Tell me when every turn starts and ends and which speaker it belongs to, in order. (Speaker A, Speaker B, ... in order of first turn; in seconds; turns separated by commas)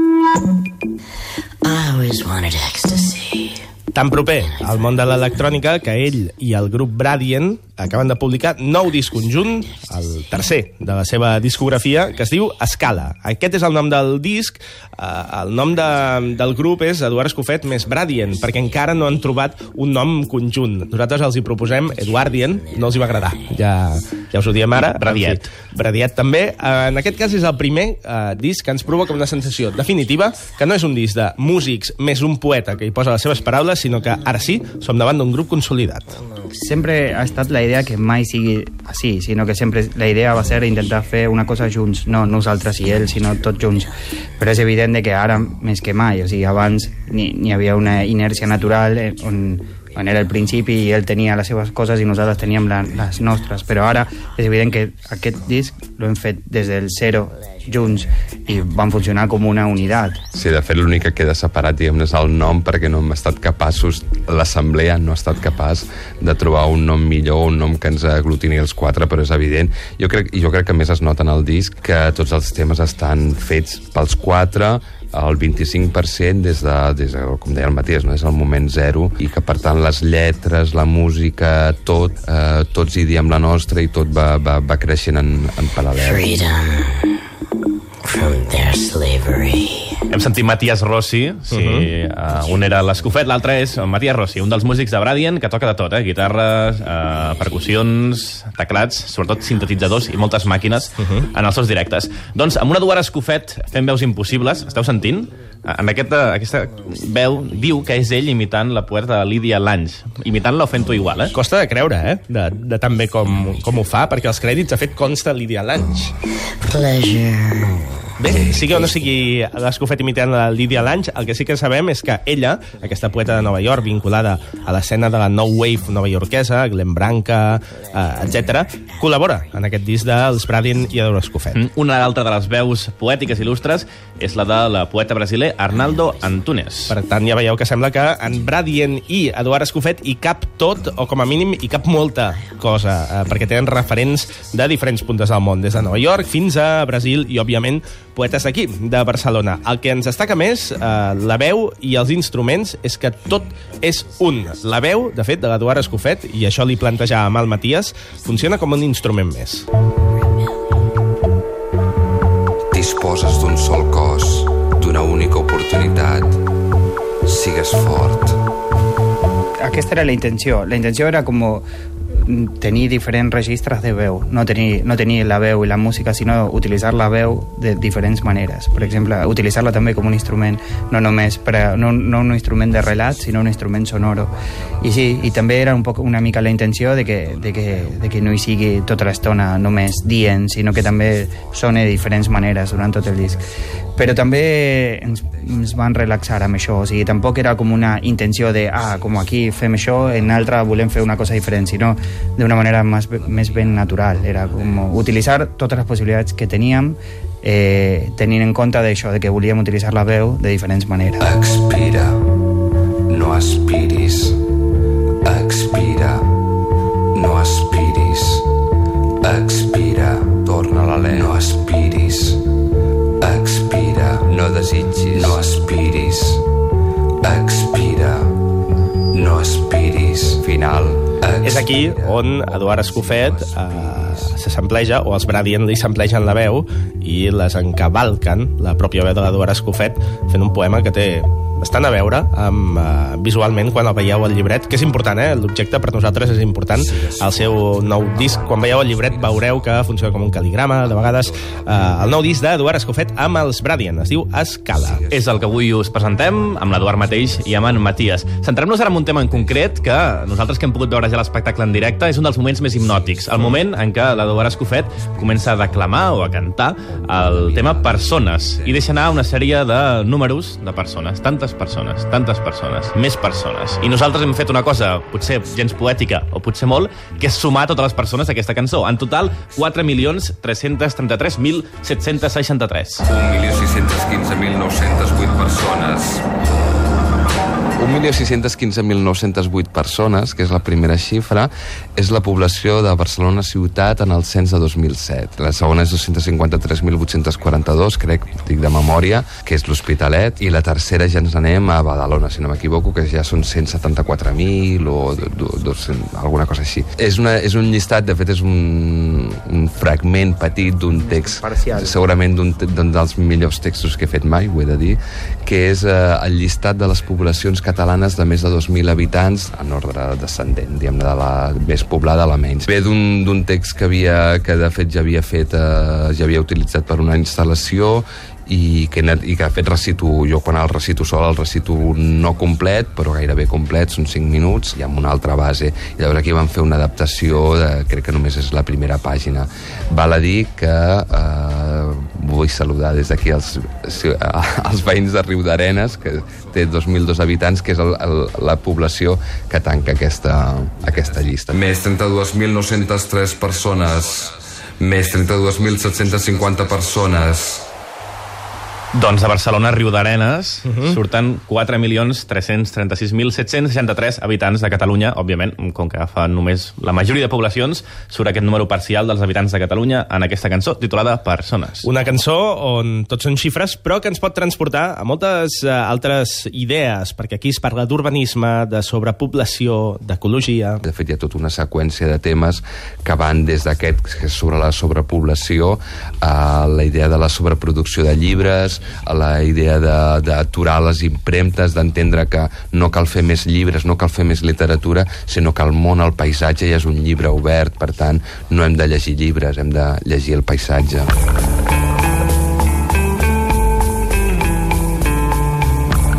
Speaker A: 1.6-3.6, Speaker B: 3.9-36.2, Speaker A: 4.4-5.4, Speaker A: 22.2-23.4, Speaker C: 24.7-25.5, Speaker D: 36.5-60.2, Speaker E: 60.3-86.3, Speaker A: 86.0-87.2, Speaker A: 88.0-90.0, Speaker C: 90.1-111.3, Speaker B: 91.5-91.9, Speaker B: 101.0-101.2, Speaker B: 111.3-116.2, Speaker A: 116.6-117.8, Speaker B: 118.2-131.6, Speaker C: 131.5-137.0, Speaker B: 136.9-159.7, Speaker E: 162.7-166.4, Speaker E: 167.2-168.4, Speaker D: 169.6-171.7, Speaker D: 172.2-193.4, Speaker E: 182.8-183.3, Speaker E: 184.1-190.0, Speaker E: 190.7-196.2, Speaker D: 194.0-211.2, Speaker E: 198.7-201.8, Speaker E: 203.1-205.2, Speaker E: 211.2-212.2, Speaker E: 213.1-214.4, Speaker E: 215.2-216.2, Speaker E: 217.1-218.4, Speaker E: 219.2-222.4, Speaker E: 223.2-226.4, Speaker E: 227.2-228.3, Speaker E: 229.1-234.3, Speaker B: 231.4-255.0, Speaker E: 246.7-252.3, Speaker E: 254.7-260.9, Speaker C: 255.1-283.0, Speaker E: 262.5-269.2, Speaker E: 283.0-286.3, Speaker E: 287.8-357.7, Speaker D: 310.9-312.0, Speaker C: 358.9-371.9, Speaker B: 360.6-361.0, Speaker B: 371.8-380.8, Speaker E: 380.8-401.1